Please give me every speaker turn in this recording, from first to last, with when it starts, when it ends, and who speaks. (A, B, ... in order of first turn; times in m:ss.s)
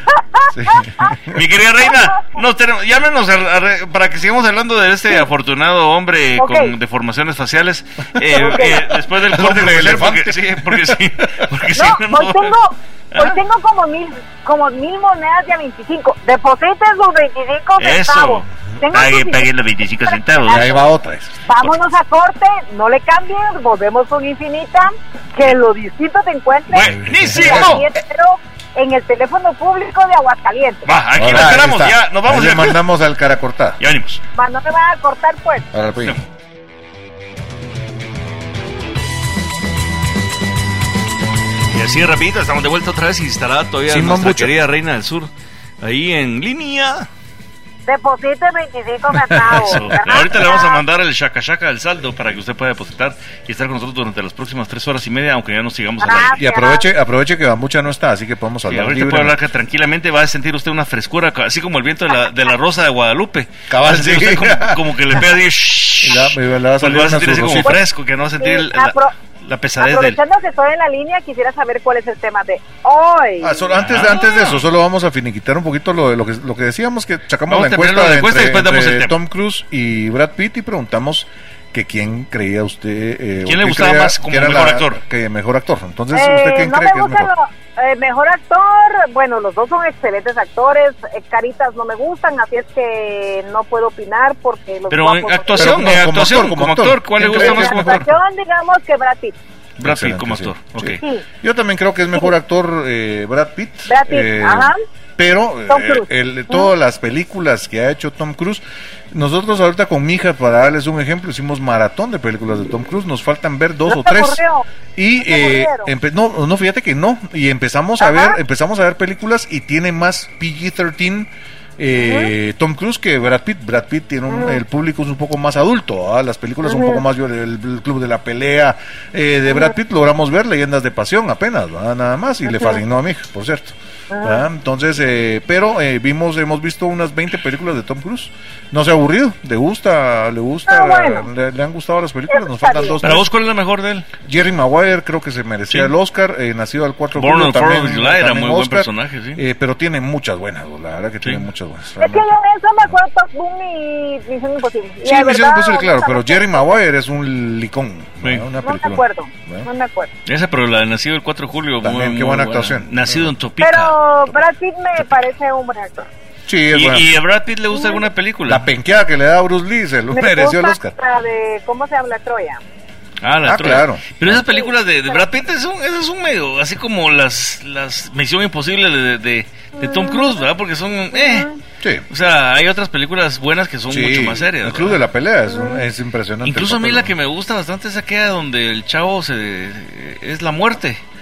0:00.5-0:01.4 A
0:01.3-0:12.6 B
0:01.9-0:02.2 C
0:06.4-0:06.7 C
0:08.3-0:08.9 C
0:08.3-0:11.4 A
0:11.7-0:19.5 C
0:13.1-0:13.4 B
0:17.8-0:20.8 B
0:20.1-0:20.9 C
0:20.5-0:21.3 A
0:21.4-0:30.9 C
0:26.7-0:27.9 B
0:27.1-0:27.8 A
0:30.8-0:32.8 B
0:31.1-0:33.8 A
0:33.8-0:34.2 B
0:34.4-0:35.7 C
0:35.7-0:36.2 A
0:41.7-0:45.3 B
0:43.9-0:44.5 A
0:45.8-0:47.1 B
0:47.9-0:50.8 C
0:49.1-0:49.9 A
0:49.5-0:56.4 B
0:56.0-0:56.9 C
0:56.3-0:59.4 A
0:58.7-1:10.2 B
1:03.7-1:05.2 A
1:06.0-1:07.8 A
1:08.4-1:09.1 C
1:09.8-1:13.7 C
1:13.4-1:27.3 A
1:13.7-1:14.6 B
1:17.5-1:19.2 B
1:23.4-1:25.0 B
1:26.1-1:35.9 C
1:34.9-1:38.1 B
1:35.6-1:38.0 A
1:37.2-1:39.4 C
1:39.8-1:41.0 B
1:39.8-1:54.4 A
1:41.0-1:41.2 C
1:43.9-1:44.8 C
1:45.7-1:46.7 C
1:53.9-1:54.7 C
1:55.0-2:23.3 A
1:55.2-1:55.9 C
1:58.0-1:58.4 C
2:02.0-2:02.3 C
2:04.3-2:04.6 C
2:06.6-2:07.0 C
2:09.5-2:09.8 C
2:12.4-2:12.8 C
2:14.1-2:14.5 C
2:20.7-2:21.3 C
2:22.3-2:23.0 C
2:23.0-2:24.1 B
2:24.2-2:32.3 A
2:27.1-2:29.4 B
2:32.0-2:36.8 C
2:35.0-2:39.7 A
2:38.6-2:40.1 C
2:40.3-2:44.0 B
2:41.8-2:43.3 A
2:43.6-2:46.1 C
2:46.4-2:47.1 A
2:46.7-2:48.7 B
2:47.7-2:48.0 C
2:48.5-2:51.0 A
2:50.1-2:52.6 C
2:53.2-3:01.5 B
2:53.4-2:54.4 A
2:54.4-2:55.2 C
2:59.8-3:00.4 C
3:01.1-3:01.6 C
3:02.1-3:05.0 B
3:03.9-3:07.1 A
3:05.5-3:05.8 C
3:06.4-3:11.0 B